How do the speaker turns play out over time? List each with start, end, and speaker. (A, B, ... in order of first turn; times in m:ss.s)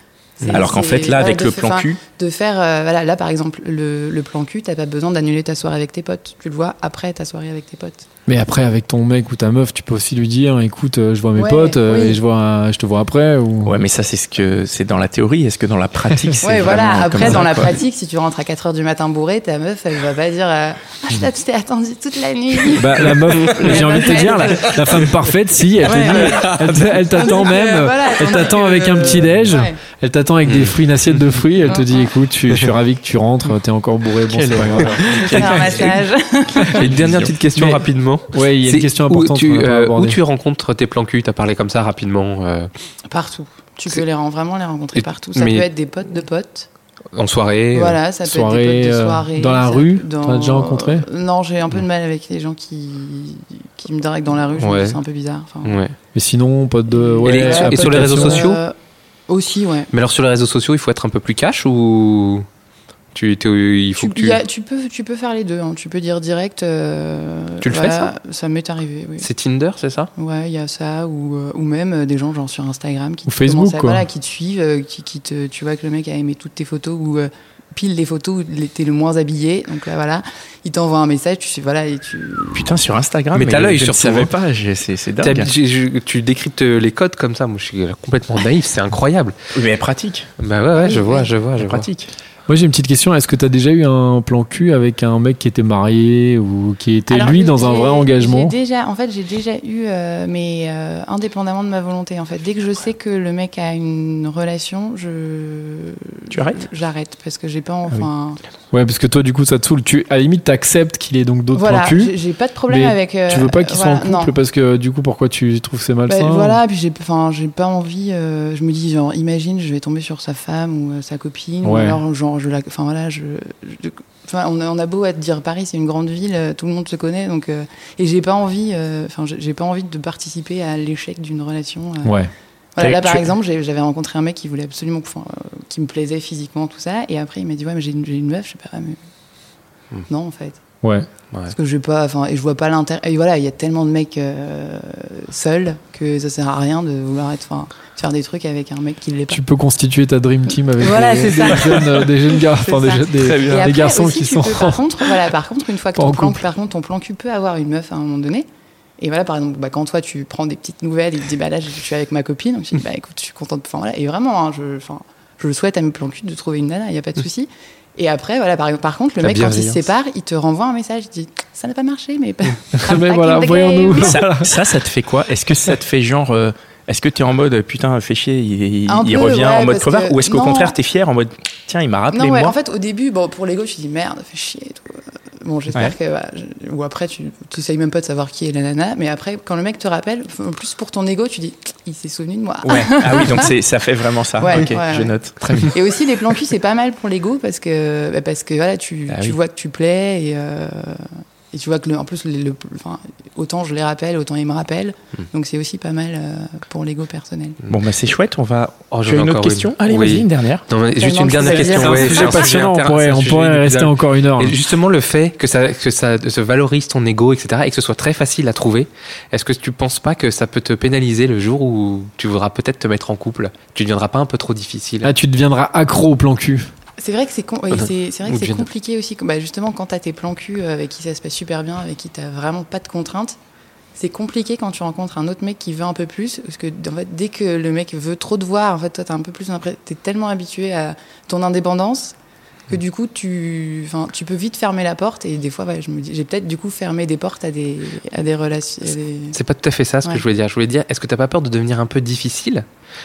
0:00.4-0:08.1 A
0:00.5-0:02.0 B
0:08.3-0:13.8 C
0:11.4-0:12.2 A
0:13.6-0:17.8 B
0:16.4-0:25.0 A
0:22.8-0:35.6 C
0:23.5-0:23.7 D
0:24.7-0:25.1 D
0:25.8-0:27.4 D
0:25.8-0:26.6 A
0:27.1-0:29.8 A
0:30.4-0:30.8 D
0:31.7-0:32.1 A
0:34.3-0:35.9 D
0:34.9-0:36.8 A
0:35.4-0:35.8 B
0:36.7-0:42.7 D
0:36.8-0:37.4 B
0:37.5-0:37.8 C
0:38.3-0:40.2 C
0:43.1-0:46.7 A
0:45.0-0:45.7 D
0:47.1-0:48.0 D
0:47.7-0:55.8 A
0:48.2-0:51.1 C
0:54.6-0:55.0 D
0:55.6-0:55.9 D
0:56.1-0:58.6 C
0:56.9-0:58.8 A
0:57.2-0:58.6 D
0:59.3-0:59.9 A
0:59.9-1:02.4 D
1:03.1-1:04.4 D
1:04.0-1:09.3 A
1:07.6-1:08.1 D
1:09.2-1:10.1 D
1:10.2-1:22.8 A
1:13.3-1:14.1 C
1:22.5-1:25.5 B
1:23.3-1:24.3 D
1:25.2-1:29.4 D
1:29.5-1:30.3 B
1:30.4-1:31.9 D
1:30.8-1:31.3 A
1:31.6-1:32.1 B
1:32.5-1:38.5 C
1:37.1-1:48.4 A
1:46.3-1:46.6 B
1:48.7-1:52.2 C
1:51.5-1:54.3 A
1:52.7-1:56.6 C
1:56.1-2:12.2 A
2:01.6-2:02.0 C
2:12.0-2:13.3 C
2:12.8-2:19.0 A
2:20.1-2:20.6 A
2:20.8-2:21.1 C
2:21.5-2:29.4 A
2:29.3-2:35.1 C
2:30.8-2:38.4 A
2:36.0-2:36.4 C
2:39.0-2:54.3 A
2:49.2-2:49.9 D
2:52.7-2:54.6 C
2:54.0-3:02.6 B
2:58.9-3:00.8 A
3:02.1-3:13.5 A
3:12.6-3:15.6 B
3:14.4-3:27.6 A
3:27.7-3:30.6 B
3:28.9-3:45.1 D
3:31.0-3:32.5 A
3:31.6-3:34.6 C
3:45.0-3:46.7 C
3:47.0-3:53.4 A
3:48.3-3:48.7 D
3:54.0-4:02.1 A
4:02.7-4:09.4 A
4:09.3-4:12.6 D